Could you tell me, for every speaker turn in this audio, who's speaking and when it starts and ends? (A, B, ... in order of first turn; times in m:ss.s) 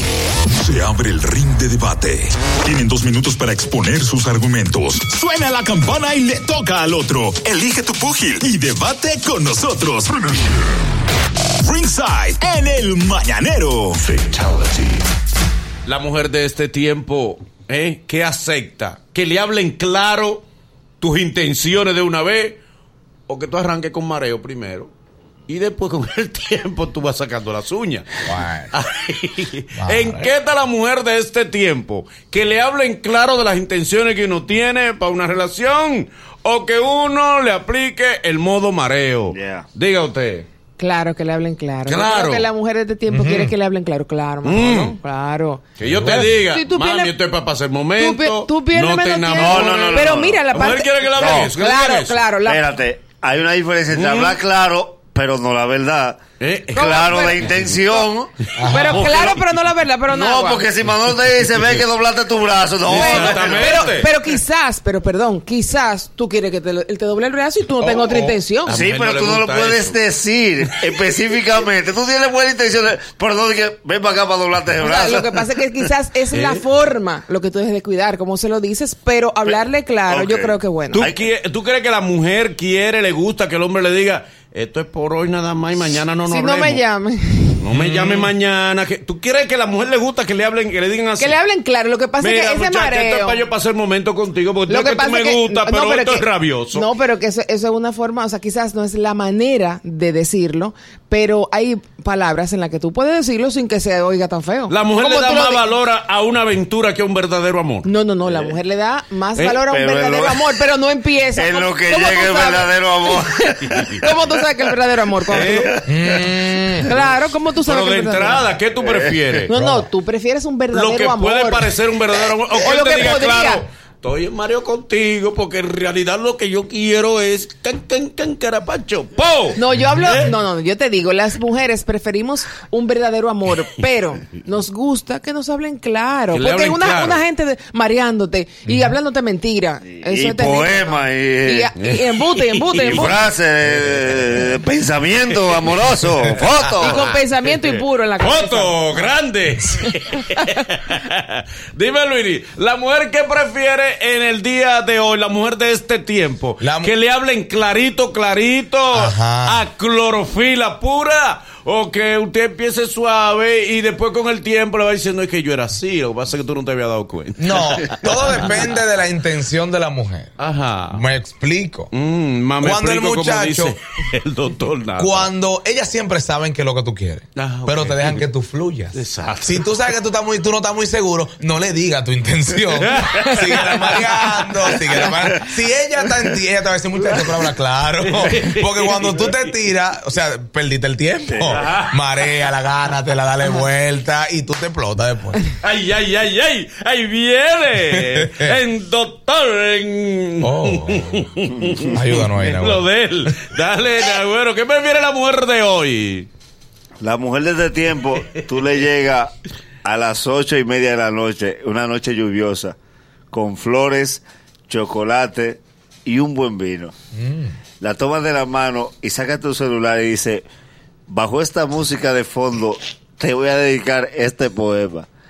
0:00.5-0:10.7 A
0:11.6-0:14.7 A
0:15.9-0:20.4 B
0:21.0-0:22.6 B
0:23.3-0:24.9 B
0:25.5-0:28.2 B
0:28.2-0:28.7 C
0:28.7-0:40.5 B
0:29.8-0:30.3 C
0:39.3-0:39.7 D
0:40.8-0:47.2 E
0:41.9-0:42.5 B
0:43.1-0:43.6 C
0:44.4-0:45.0 B
0:45.8-0:52.2 B
0:45.9-0:46.4 C
0:48.0-0:52.7 E
0:49.3-0:50.5 D
0:51.2-0:51.5 D
0:52.4-0:56.2 D
0:53.9-0:54.4 B
0:56.4-0:57.8 B
0:56.7-0:58.4 D
0:56.8-0:57.4 E
0:58.6-0:59.2 C
0:58.6-0:59.4 B
0:58.6-1:00.7 E
1:00.1-1:04.0 D
1:02.8-1:04.1 B
1:02.9-1:08.8 E
1:07.8-1:10.0 B
1:08.7-1:15.6 D
1:14.8-1:21.1 E
1:16.3-1:16.7 B
1:19.4-1:21.2 D
1:20.9-1:26.8 B
1:26.3-1:27.6 E
1:27.6-1:31.4 B
1:27.7-1:28.3 C
1:31.2-1:33.4 E
1:32.2-1:36.9 B
1:34.7-1:45.6 E
1:44.7-1:47.9 B
1:47.8-1:58.5 E
1:48.3-1:48.5 D
1:49.4-1:50.5 D
1:51.4-1:53.8 D
1:53.7-1:54.0 B
1:55.3-1:55.7 B
1:55.9-1:56.9 C
1:56.9-1:59.5 B
1:58.8-1:59.1 D
1:59.5-2:01.7 E
1:59.6-1:59.8 C
2:00.7-2:10.3 B
2:02.5-2:03.6 E
2:09.6-2:23.2 E
2:09.8-2:10.1 C
2:16.3-2:17.2 B
2:19.9-2:21.7 D
2:21.8-2:23.2 B
2:22.8-2:27.2 D
2:26.8-2:29.1 E
2:27.4-2:48.4 B
2:36.6-2:36.9 C
2:38.9-2:39.6 C
2:47.4-2:50.3 C
2:50.4-2:51.0 B
2:50.9-2:51.9 C
2:51.9-2:55.3 B
2:52.6-2:53.8 C
2:55.0-3:15.4 C
2:57.4-2:58.3 B
2:58.9-2:59.6 B
3:02.8-3:03.8 B
3:08.0-3:09.5 B
3:11.3-3:11.6 D
3:11.5-3:12.0 B
3:15.6-3:26.3 B
3:17.9-3:18.6 C
3:20.4-3:23.3 C
3:27.0-3:29.3 D
3:29.8-3:32.8 D
3:33.3-3:37.0 D
3:37.1-3:37.6 C
3:37.8-3:40.5 D
3:41.1-3:45.1 D